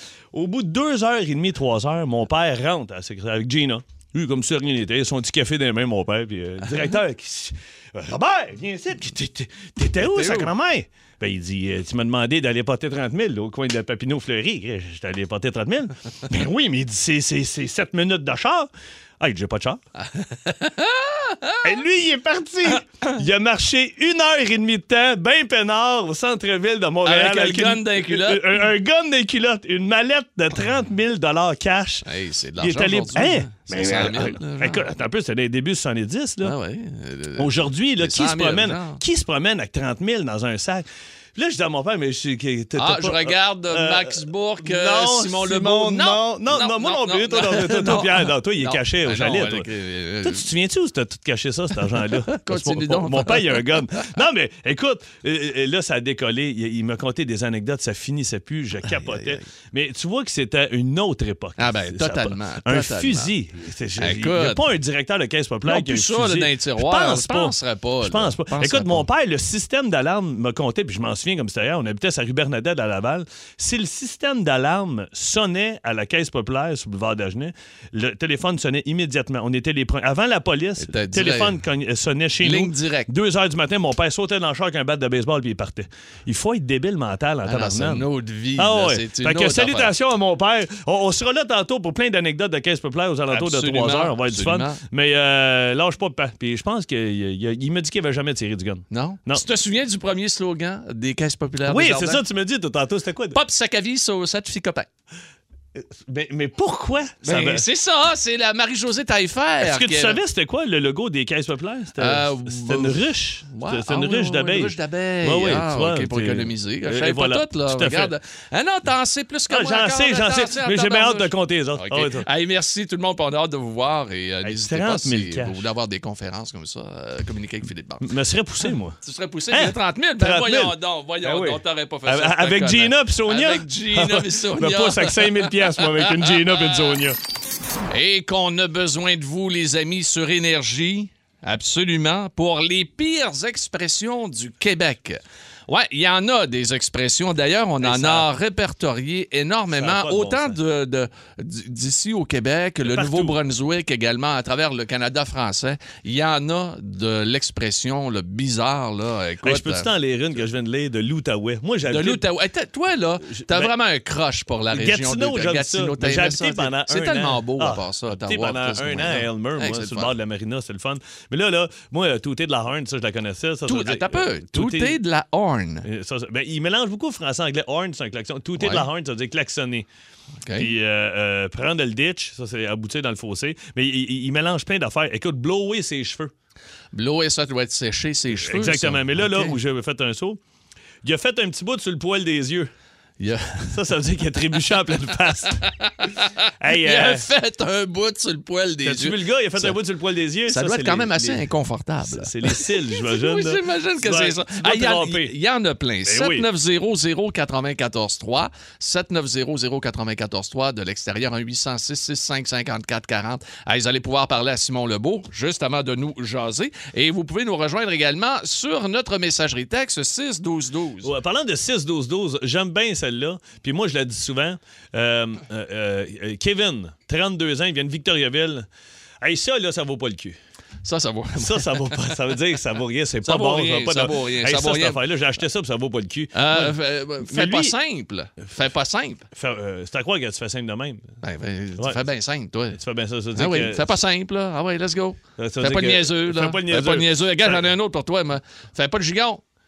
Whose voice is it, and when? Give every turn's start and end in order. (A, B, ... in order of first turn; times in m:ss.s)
0:00.3-0:19.8 A
0:10.0-0:10.5 B
0:20.0-0:21.7 B
0:21.6-0:32.1 A
0:27.0-0:28.6 B
0:32.0-0:34.9 B
0:32.6-0:36.5 A
0:36.4-0:39.0 B
0:37.4-0:49.7 A
0:42.8-0:50.5 B
0:50.2-1:39.4 A
0:52.3-0:54.1 B
0:58.9-0:59.4 B
1:01.6-1:03.3 B
1:04.0-1:04.6 B
1:05.6-1:09.1 B
1:20.8-1:21.6 B
1:22.4-1:23.1 B
1:27.4-1:29.9 B
1:33.3-1:34.8 B
1:38.9-1:42.2 B
1:41.6-1:43.4 A
1:43.3-1:44.9 B
1:45.7-1:47.6 A
1:47.2-1:50.2 B
1:49.6-1:58.1 A
1:52.0-2:08.1 B
1:59.5-2:02.3 A
2:04.4-2:05.6 A
2:08.0-2:09.0 A
2:09.0-2:16.9 B
2:09.5-2:17.2 A
2:17.9-2:39.9 B
2:27.8-2:28.3 A
2:29.7-2:30.6 A
2:32.8-2:33.4 A
2:39.4-2:42.2 A
2:41.8-2:50.1 B
2:43.2-2:43.7 A
2:44.7-2:55.0 A
2:53.7-2:55.8 B
2:55.8-2:59.9 A
2:58.6-2:58.8 B
3:00.4-3:00.7 B
3:00.5-3:06.3 A
3:06.9-3:09.6 B
3:08.3-3:10.4 A
3:11.0-3:12.7 A
3:13.2-3:13.8 B
3:13.7-3:15.6 A
3:15.5-3:19.8 B
3:16.6-3:17.3 A
3:18.8-3:21.5 A
3:20.4-3:41.1 B
3:22.0-3:25.3 A
3:26.0-3:26.4 A
3:41.0-3:48.7 A
3:49.2-3:50.4 A
3:50.8-3:52.0 B
3:51.4-3:57.7 A
3:53.2-3:55.0 B
3:56.3-3:59.3 B
3:59.3-4:01.1 A
4:01.2-4:02.8 B
4:01.8-4:02.0 A
4:02.7-4:03.9 A
4:03.3-4:09.4 B
4:05.4-4:07.7 A